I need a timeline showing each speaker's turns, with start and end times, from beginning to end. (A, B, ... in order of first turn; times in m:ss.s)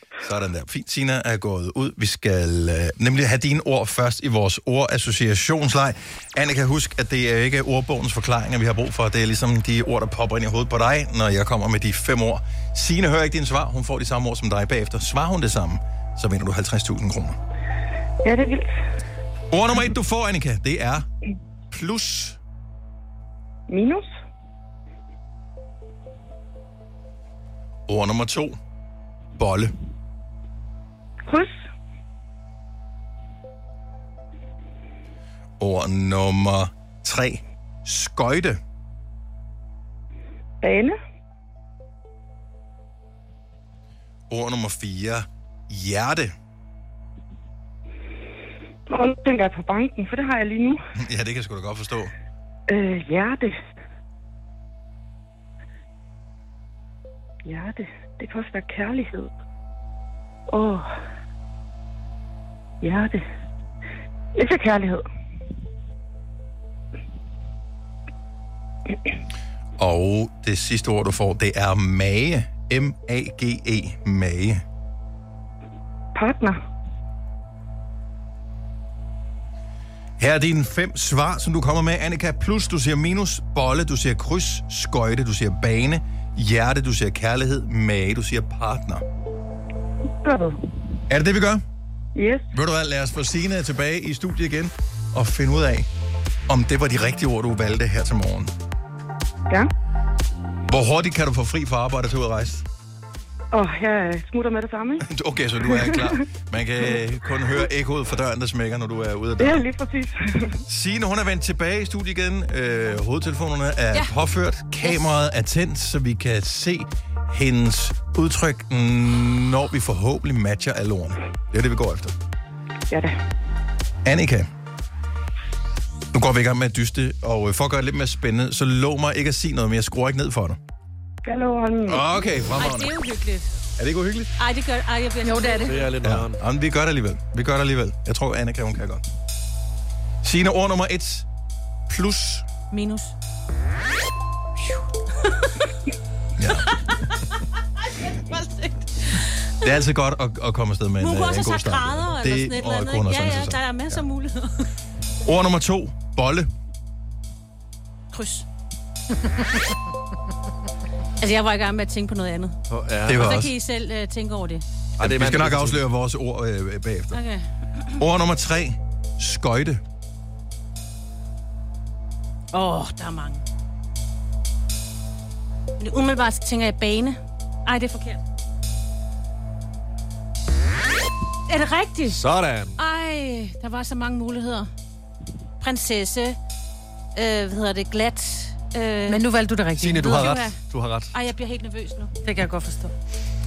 0:00.2-0:17.4 A
0:18.2-0:18.7 B
0:19.5-0:21.1 A
0:21.7-0:22.4 A
0:23.7-0:24.1 B
0:27.9-0:28.6 A
0:29.4-0:29.7 A
0:31.2-0:31.6 B
0:35.6-0:38.6 A
0:40.6-0:41.0 B
0:44.3-0:46.3 A
0:48.9-0:50.8 B
0:51.0-0:52.1 A
0:52.7-0:53.6 B
0:57.4-0:59.3 B
1:00.5-1:01.0 B
1:02.8-1:03.2 B
1:04.4-1:05.0 B
1:09.8-1:14.6 A
1:16.1-1:16.6 B
1:20.2-1:29.0 A
1:30.2-1:30.6 B
1:31.1-1:31.6 A
1:32.1-1:32.4 B
1:32.5-1:35.9 A
1:36.5-1:38.5 A
1:40.7-1:42.6 A
1:43.5-1:45.0 B
1:45.0-1:49.6 A
1:45.6-1:46.2 B
1:49.4-1:50.6 B
1:50.7-2:02.1 A
2:02.9-2:03.2 B
2:04.0-2:04.5 A
2:06.1-2:10.6 A
2:11.2-2:12.1 B
2:11.9-2:12.9 A
2:12.5-2:13.5 C
2:13.8-2:14.3 A
2:14.4-2:15.9 C
2:15.2-2:15.8 D
2:15.6-2:16.4 E
2:16.0-2:19.0 A
2:20.2-2:21.2 A
2:21.9-2:22.4 A
2:22.7-2:23.1 C
2:25.2-2:25.5 C
2:26.4-2:26.7 A
2:26.7-2:27.3 C
2:27.8-2:29.7 C
2:29.6-2:34.0 A
2:31.0-2:34.7 C
2:35.2-2:36.5 A
2:38.1-2:38.4 C
2:41.2-2:44.6 C
2:42.7-2:43.3 E
2:43.0-2:43.5 A
2:45.0-2:45.8 E
2:45.0-2:47.2 A
2:47.1-2:47.9 C
2:48.0-2:49.8 A
2:52.5-2:53.4 C
2:55.8-2:58.2 C
3:01.5-3:02.2 C
3:02.1-3:02.8 E
3:02.8-3:04.7 C
3:05.6-3:06.4 C
3:07.1-3:09.2 C
3:09.1-3:10.3 D
3:09.8-3:11.1 E
3:10.0-3:10.6 C
3:11.1-3:12.1 C
3:12.2-3:12.9 D